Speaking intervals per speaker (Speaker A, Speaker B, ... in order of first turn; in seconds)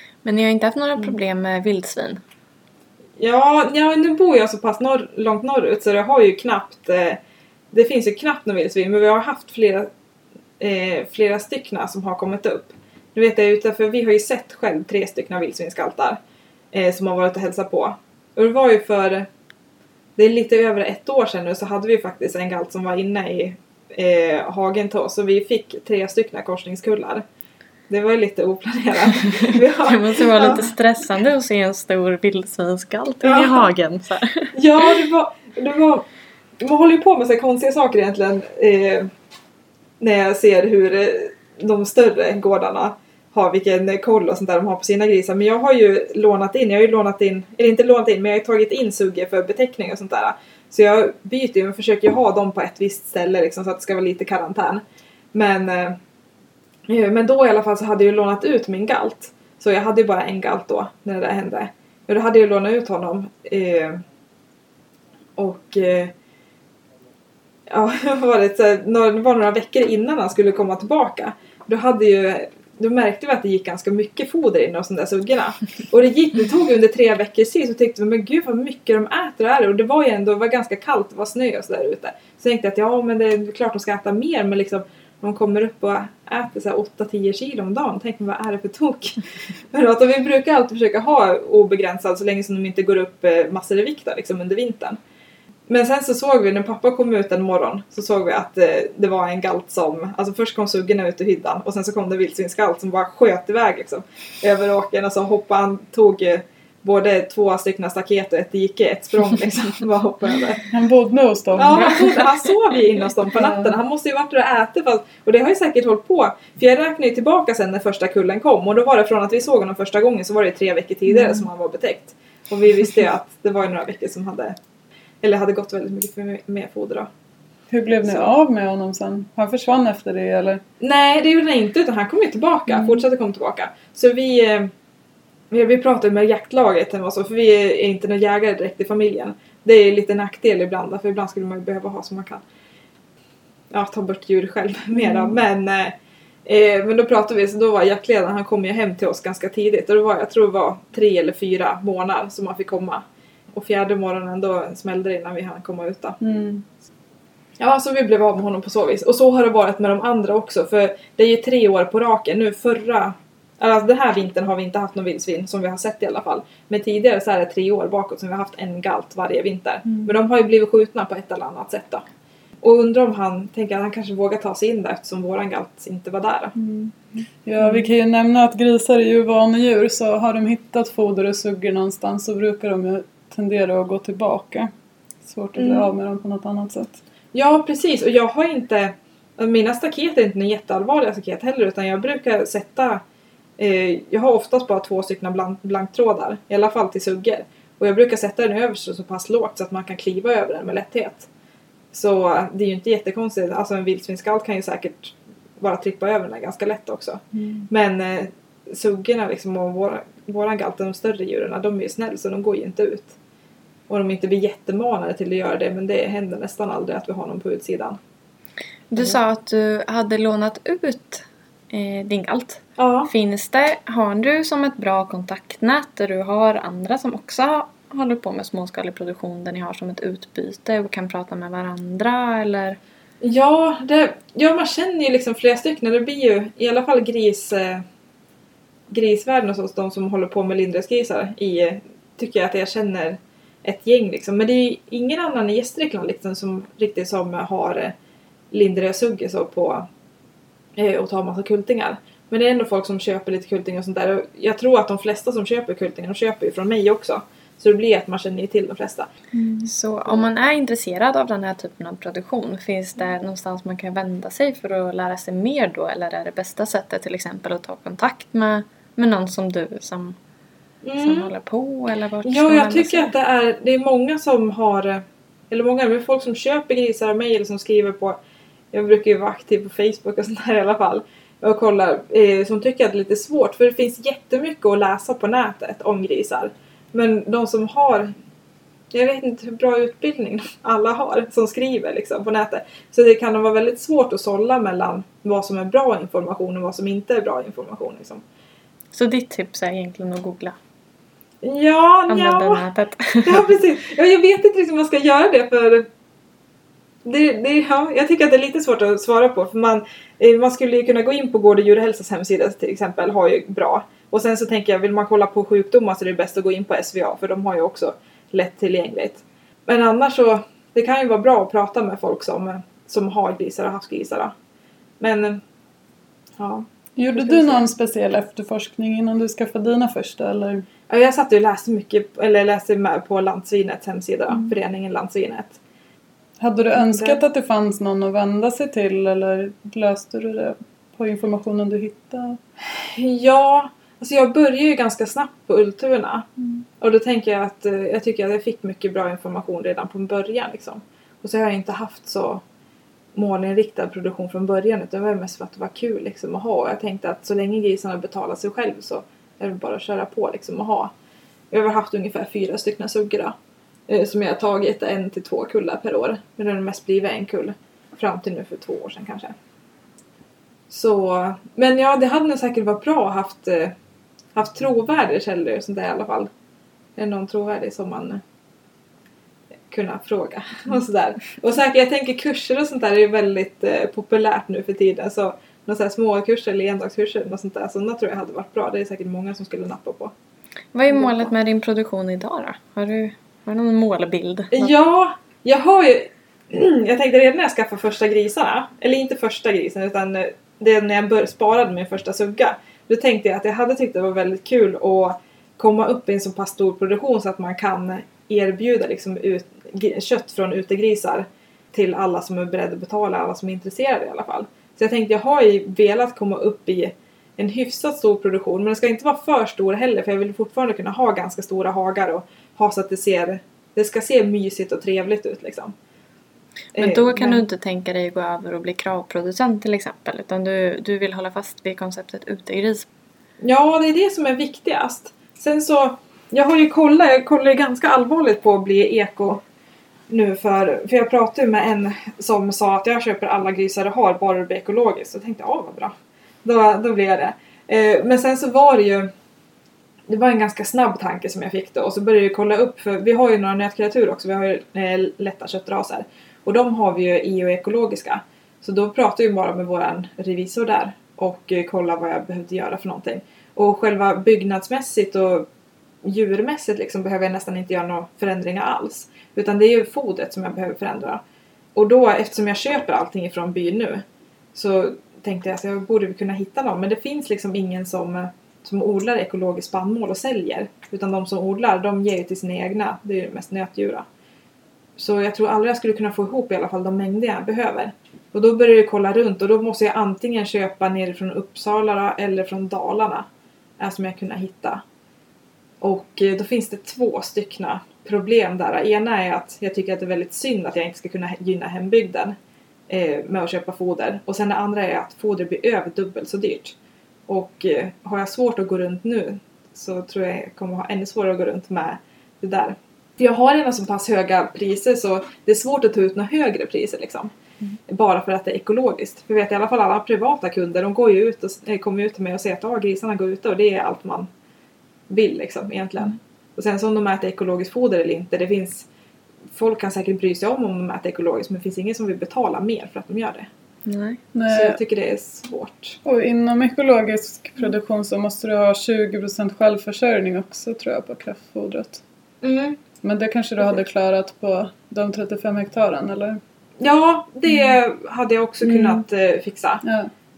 Speaker A: 0.2-2.2, 29.4-34.9, 218.9-232.8, 259.7-270.2, 271.0-273.1, 298.9-300.6, 302.1-303.6, 390.7-394.7, 426.8-432.9, 533.9-534.2
Speaker B: 3.2-7.2, 7.7-9.9, 10.6-16.2, 16.7-19.3, 20.2-27.2, 27.9-30.7, 33.2-33.7, 34.5-36.0, 36.6-39.1, 40.0-54.8, 55.3-56.0, 56.9-64.0, 65.4-66.1, 67.7-95.0, 95.7-110.7, 111.5-124.6, 125.2-127.1, 130.8-134.7, 135.5-142.4, 143.7-156.2, 157.6-172.0, 172.6-176.5, 177.6-177.9, 185.6-185.9, 187.3-193.0, 193.6-201.3, 201.9-213.2, 213.9-218.0, 222.8-223.1, 233.2-237.8, 238.9-247.9, 248.5-249.9, 250.8-259.1, 270.8-271.3, 272.2-278.2, 278.7-288.1, 288.9-298.2, 301.4-302.6, 303.2-305.9, 307.0-324.3, 325.0-325.4, 326.4-327.6, 330.9-335.6, 336.8-337.2, 342.6-346.2, 346.8-352.4, 353.1-360.9, 361.5-363.3, 363.9-369.3, 370.7-373.7, 374.3-376.3, 377.0-378.2, 379.7-390.1, 390.9-391.3, 394.5-425.7, 426.8-427.4, 433.4-439.4, 440.1-449.1, 450.1-465.4, 466.0-471.2, 471.7-474.0, 474.5-484.1, 485.0-493.3, 493.8-494.8, 495.8-502.4, 502.9-506.8, 507.3-517.3, 517.9-524.3, 525.1-528.9, 529.5-533.5, 534.5-536.0, 542.4-542.8, 546.8-549.8
Speaker C: 110.7-112.2, 113.3-113.7, 121.1-121.5, 127.7-130.6, 132.7-133.0, 144.9-145.4, 156.2-156.6, 176.6-184.7, 185.2-187.0, 207.3-207.7, 259.3-259.7, 327.0-330.6, 336.4-342.4, 534.3-534.8, 536.0-542.0, 543.0-546.4, 548.6-549.0, 549.8-550.1